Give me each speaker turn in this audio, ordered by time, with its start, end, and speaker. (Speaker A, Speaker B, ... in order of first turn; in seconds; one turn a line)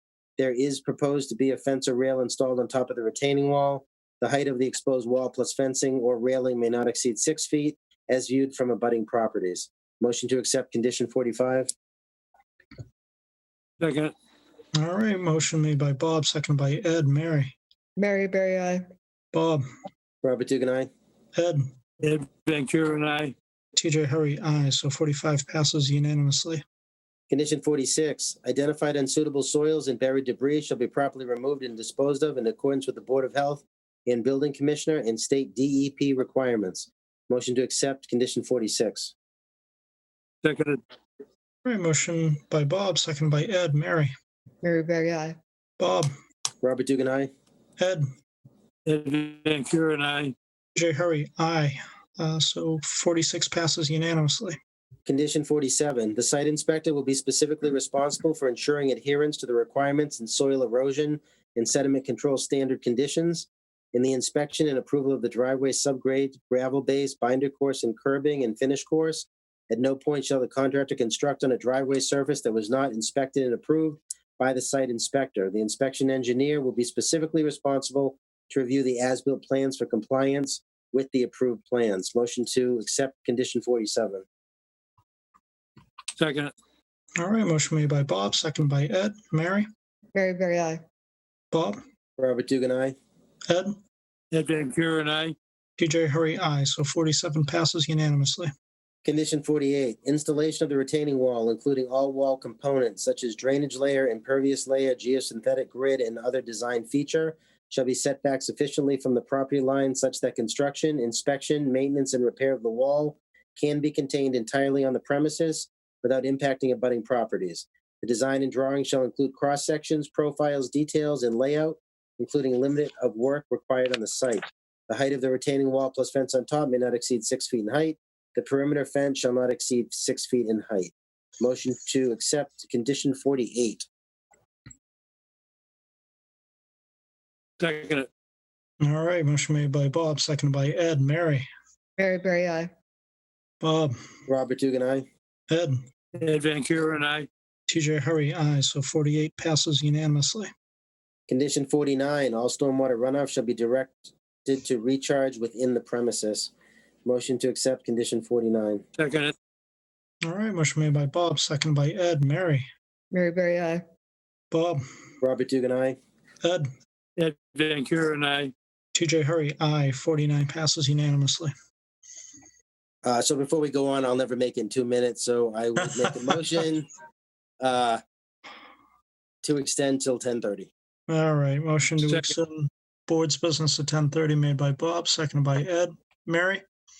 Speaker A: 0.4-11.7
Speaker B: 13.8-14.1
Speaker C: 14.7-17.5
Speaker D: 18.0-18.8
Speaker C: 19.3-19.6
Speaker A: 20.2-20.9
Speaker C: 21.3-21.6
Speaker B: 22.0-23.3
Speaker C: 23.8-26.6
Speaker A: 27.3-39.1
Speaker B: 40.4-40.8
Speaker C: 41.6-44.1
Speaker D: 44.6-45.4
Speaker C: 45.8-46.1
Speaker A: 46.6-47.3
Speaker C: 47.8-48.0
Speaker B: 48.9-50.3
Speaker C: 50.7-54.5
Speaker A: 55.0-84.2
Speaker B: 86.2-86.5
Speaker C: 87.2-89.7
Speaker D: 90.1-90.8
Speaker C: 91.5-91.8
Speaker A: 92.2-93.0
Speaker C: 93.5-93.8
Speaker B: 94.3-95.3
Speaker C: 95.8-98.5
Speaker A: 99.0-133.9
Speaker B: 137.6-138.1
Speaker C: 138.8-141.4
Speaker D: 142.0-142.7
Speaker C: 143.6-144.0
Speaker A: 144.3-145.1
Speaker C: 145.5-145.8
Speaker B: 146.1-147.3
Speaker C: 147.7-150.5
Speaker A: 151.3-156.5
Speaker A: 157.0-158.8
Speaker B: 159.0-159.3
Speaker C: 160.2-162.7
Speaker D: 163.1-163.8
Speaker C: 164.5-164.8
Speaker A: 165.2-166.0
Speaker C: 166.4-166.7
Speaker B: 167.2-168.5
Speaker C: 168.9-171.5
Speaker A: 173.0-176.9
Speaker A: 177.6-178.0
Speaker A: 179.4-180.7
Speaker C: 181.1-186.6